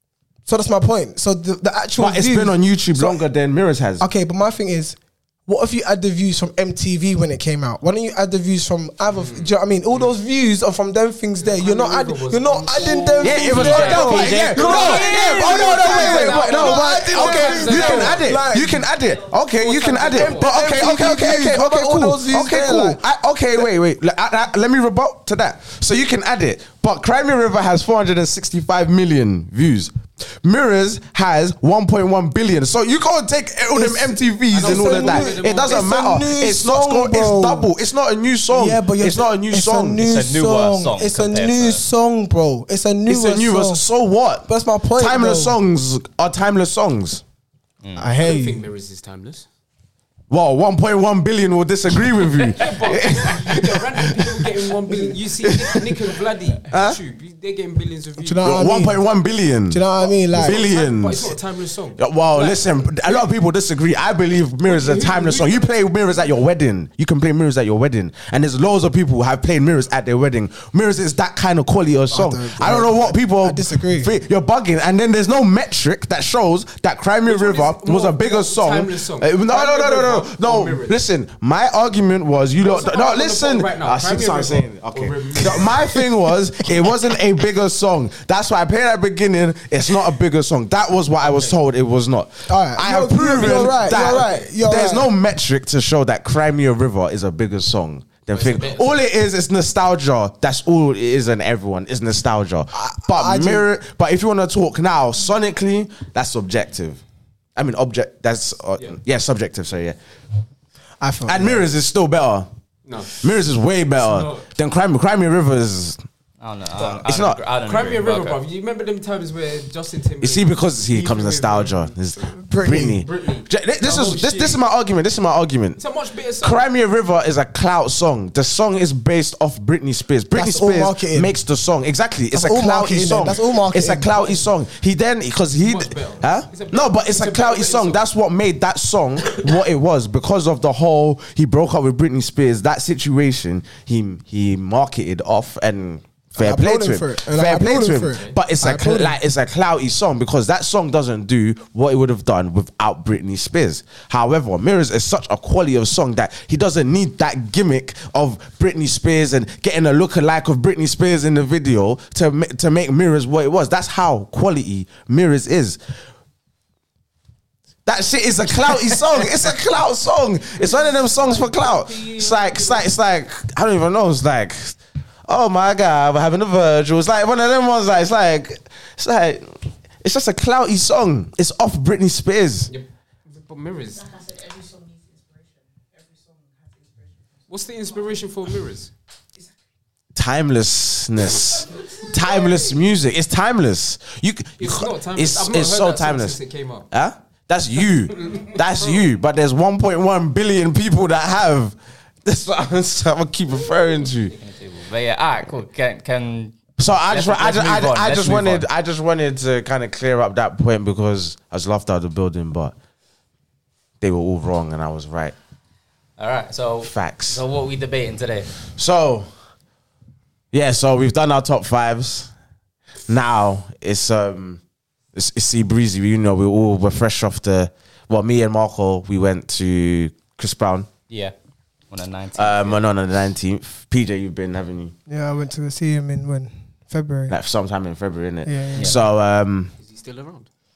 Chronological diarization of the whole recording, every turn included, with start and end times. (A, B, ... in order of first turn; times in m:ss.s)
0:00.5-0:03.2 A
0:02.0-0:04.1 B
0:04.0-0:18.9 A
0:09.1-0:10.1 C
0:11.4-0:18.4 C
0:13.2-0:40.0 B
0:13.4-0:15.2 D
0:19.5-0:21.0 C
0:20.1-0:23.0 A
0:33.7-0:37.7 A
0:34.5-0:35.9 C
0:38.5-0:43.8 A
0:40.0-0:41.8 D
0:43.1-0:47.2 B
0:44.5-0:45.6 A
0:47.8-0:48.1 D
0:48.0-0:48.6 A
0:48.2-0:49.4 C
0:50.3-0:54.6 B
0:52.2-0:58.6 C
0:55.4-0:56.1 B
0:56.7-0:57.0 B
0:58.2-0:59.0 A
0:58.4-1:01.3 B
0:59.7-1:00.6 A
1:00.0-1:03.3 C
1:02.0-1:47.0 B
1:04.6-1:05.7 C
1:12.1-1:14.1 A
1:17.2-1:21.0 C
1:22.6-1:25.8 C
1:31.2-1:31.6 C
1:32.5-1:35.1 A
1:34.0-1:34.3 C
1:38.3-1:38.9 C
1:42.7-1:43.6 A
1:47.6-1:50.0 B
1:51.0-1:51.7 A
1:51.2-1:52.5 B
1:52.8-1:53.3 C
1:53.1-1:56.0 B
1:54.0-1:54.5 C
1:56.4-1:58.4 D
1:56.8-1:57.4 B
1:57.6-2:04.6 C
2:00.2-2:05.8 B
2:02.4-2:03.0 A
2:05.8-2:06.6 C
2:06.4-2:45.8 B
2:10.3-2:11.3 A
2:12.3-2:14.1 A
2:14.1-2:14.5 C
2:15.6-2:18.0 C
2:26.4-2:29.2 A
2:47.8-3:02.7 B
2:50.6-2:52.8 C
3:02.7-3:04.1 C
3:04.0-3:07.1 E
3:07.5-3:08.9 C
3:10.1-3:24.3 B
3:14.6-3:16.9 C
3:18.1-3:18.6 C
3:24.4-3:26.6 D
3:26.8-3:32.7 B
3:27.1-3:28.6 D
3:34.0-3:35.3 B
3:36.2-3:38.5 D
3:36.8-3:37.4 B
3:38.7-3:39.3 B
3:40.5-3:42.3 B
3:43.1-3:44.6 B
3:45.1-3:50.9 B
3:51.1-3:51.3 D
3:51.9-3:52.8 D
3:52.3-3:54.9 B
3:55.1-3:57.3 A
3:57.3-3:59.7 B
3:58.4-3:59.0 A
3:59.8-4:00.5 C